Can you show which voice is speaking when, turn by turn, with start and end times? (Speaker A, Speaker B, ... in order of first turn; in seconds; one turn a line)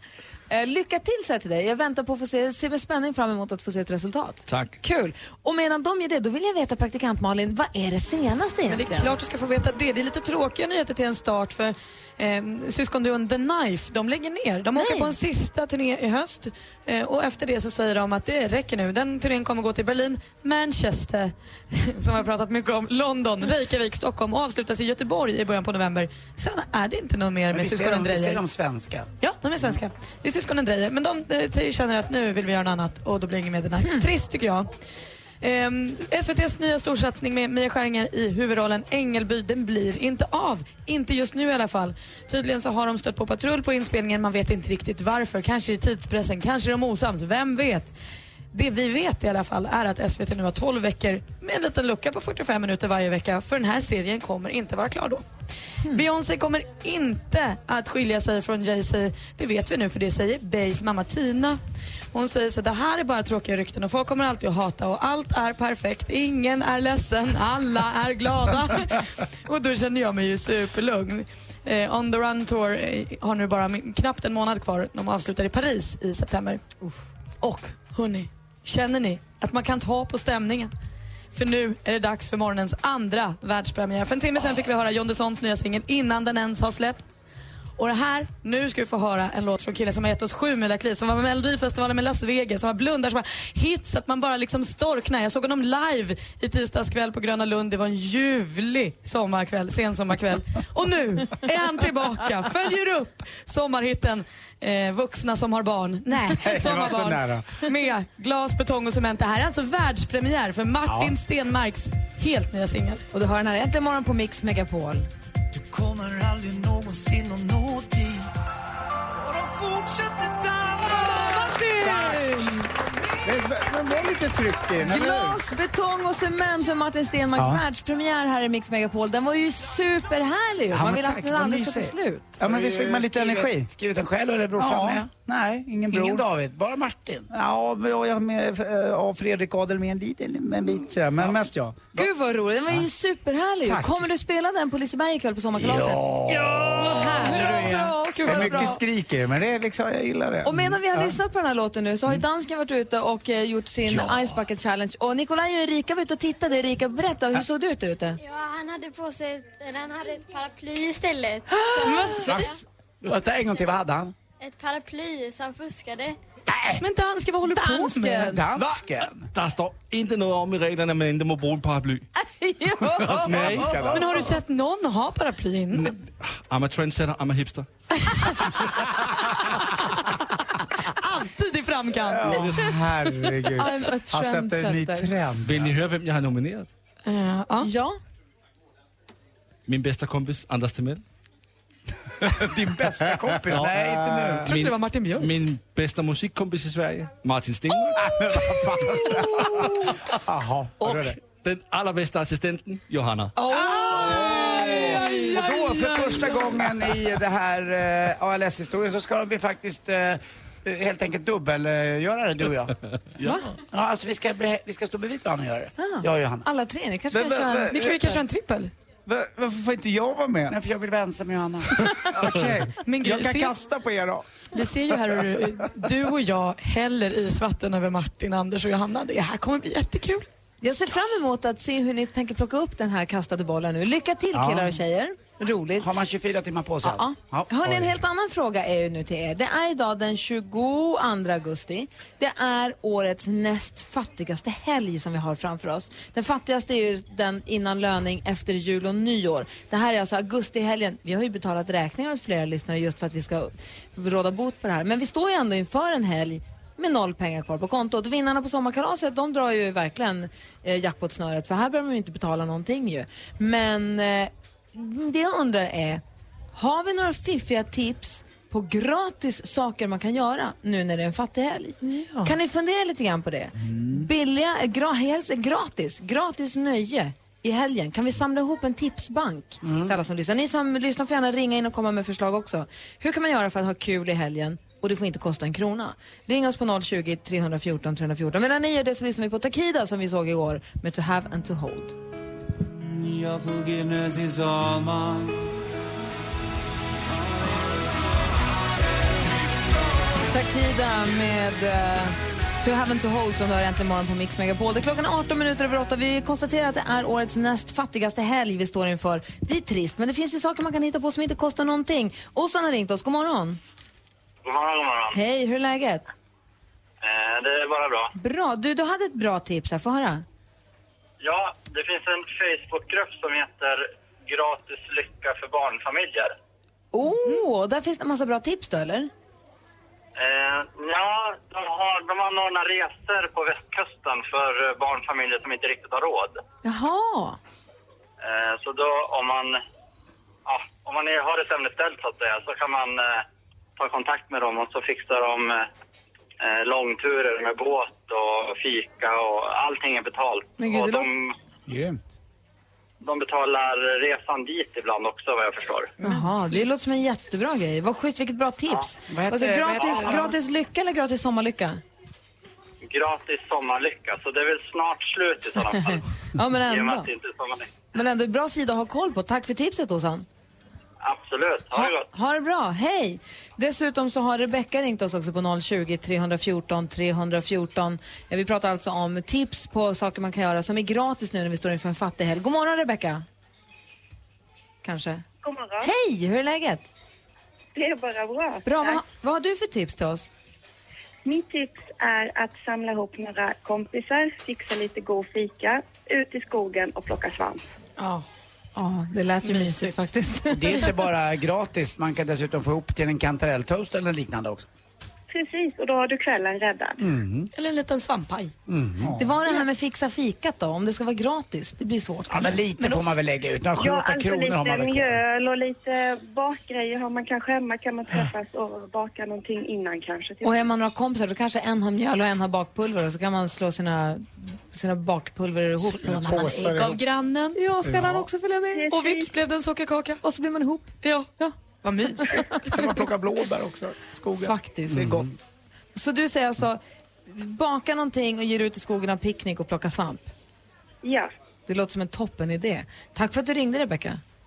Speaker A: 0.5-9.1
Speaker B: 4.5-4.7
Speaker C: 8.7-28.4
Speaker A: 14.8-15.1
Speaker D: 27.5-29.1
Speaker C: 29.2-34.7
Speaker C: 35.4-47.9
Speaker C: 48.5-55.2
Speaker C: 55.9-61.6
Speaker C: 62.1-76.6
Speaker A: 76.8-77.7
Speaker C: 77.9-80.7
Speaker C: 81.3-87.1
Speaker C: 87.8-113.0
Speaker E: 106.2-107.6
Speaker E: 110.8-111.2
Speaker A: 113.1-115.1
Speaker F: 115.5-118.3
Speaker F: 119.1-122.2
Speaker E: 121.7-122.6
Speaker E: 123.2-125.4
Speaker A: 124.8-132.4
Speaker E: 127.4-127.6
Speaker D: 130.7-135.1
Speaker E: 132.4-133.7
Speaker E: 134.6-136.3
Speaker D: 135.9-137.3
Speaker E: 137.3-142.0
Speaker A: 141.9-146.0
Speaker E: 143.6-144.1
Speaker D: 145.8-146.3
Speaker E: 146.3-146.7
Speaker C: 146.3-148.7
Speaker A: 147.2-148.8
Speaker E: 148.2-151.2
Speaker A: 150.4-158.2
Speaker E: 153.9-154.3
Speaker G: 158.2-162.6
Speaker C: 161.8-162.5
Speaker D: 162.2-164.1
Speaker G: 164.4-166.2
Speaker D: 166.5-166.8
Speaker C: 166.8-168.4
Speaker A: 167.5-168.4
Speaker D: 168.2-169.3
Speaker B: 169.3-172.1
Speaker A: 172.2-173.9
Speaker B: 173.0-174.0
Speaker E: 173.0-174.4
Speaker C: 173.8-175.9
Speaker B: 175.7-177.7
Speaker C: 178.1-178.5
Speaker C: 179.8-180.0
Speaker C: 180.8-182.9
Speaker E: 182.0-185.7
Speaker B: 182.3-182.7
Speaker A: 183.6-185.1
Speaker B: 185.4-186.7
Speaker C: 187.1-187.7
Speaker A: 187.6-188.0
Speaker B: 189.7-191.0
Speaker D: 192.3-194.5
Speaker E: 193.5-194.5
Speaker B: 194.4-198.0
Speaker C: 194.4-195.3
Speaker E: 197.9-201.2
Speaker C: 199.0-199.9
Speaker B: 200.8-203.3
Speaker A: 203.3-204.3
Speaker C: 203.4-206.6
Speaker E: 203.9-205.9
Speaker D: 204.0-212.7
Speaker D: 213.7-216.4
Speaker A: 215.8-217.9
Speaker E: 217.1-218.2
Speaker C: 217.7-218.7
Speaker E: 219.1-220.6
Speaker D: 220.5-221.9
Speaker E: 222.0-224.2
Speaker C: 222.8-223.5
Speaker C: 224.5-230.2
Speaker E: 224.9-225.2
Speaker A: 230.6-235.9
Speaker E: 234.3-234.7
Speaker D: 235.8-237.9
Speaker A: 236.8-266.0
Speaker A: 266.5-291.9
Speaker C: 271.8-272.3
Speaker D: 279.6-279.9
Speaker F: 292.7-295.5
Speaker A: 300.3-313.6
Speaker H: 314.4-315.2
Speaker A: 315.1-316.1
Speaker H: 317.0-318.1
Speaker A: 318.1-320.2
Speaker H: 321.2-326.3
Speaker A: 326.9-329.1
Speaker H: 330.1-336.4
Speaker A: 336.6-337.4
Speaker H: 338.2-339.6
Speaker H: 340.4-343.2
Speaker H: 343.8-345.7
Speaker H: 346.4-351.3
Speaker A: 350.6-351.1
Speaker E: 351.7-352.0
Speaker H: 353.0-355.9
Speaker A: 356.0-361.8
Speaker D: 359.1-360.3
Speaker H: 362.8-366.0
Speaker A: 365.9-367.1
Speaker H: 366.6-367.7
Speaker A: 367.9-370.2
Speaker H: 371.0-372.1
Speaker A: 371.7-383.2
Speaker A: 384.8-385.2
Speaker I: 385.4-385.9
Speaker A: 385.8-386.9
Speaker I: 387.7-389.0
Speaker A: 388.6-390.3
Speaker I: 391.2-397.6
Speaker C: 398.0-398.2
Speaker A: 398.8-400.9
Speaker C: 399.4-400.0
Speaker D: 400.5-404.7
Speaker I: 405.3-407.0
Speaker D: 407.0-407.5
Speaker C: 407.5-408.5
Speaker D: 408.7-409.2
Speaker E: 409.0-409.3
Speaker A: 409.1-412.6
Speaker D: 412.3-415.2
Speaker I: 413.8-420.6
Speaker A: 420.4-426.7
Speaker C: 426.0-427.6
Speaker E: 426.0-427.0
Speaker A: 427.6-428.9
Speaker E: 427.8-428.3
Speaker I: 428.8-429.3
Speaker C: 428.9-430.2
Speaker A: 430.2-431.5
Speaker C: 431.0-431.3
Speaker C: 431.8-432.8
Speaker A: 432.2-432.5
Speaker E: 432.7-435.2
Speaker A: 434.4-435.2
Speaker D: 434.9-435.2
Speaker A: 435.9-440.3
Speaker I: 441.0-441.3
Speaker A: 441.7-444.2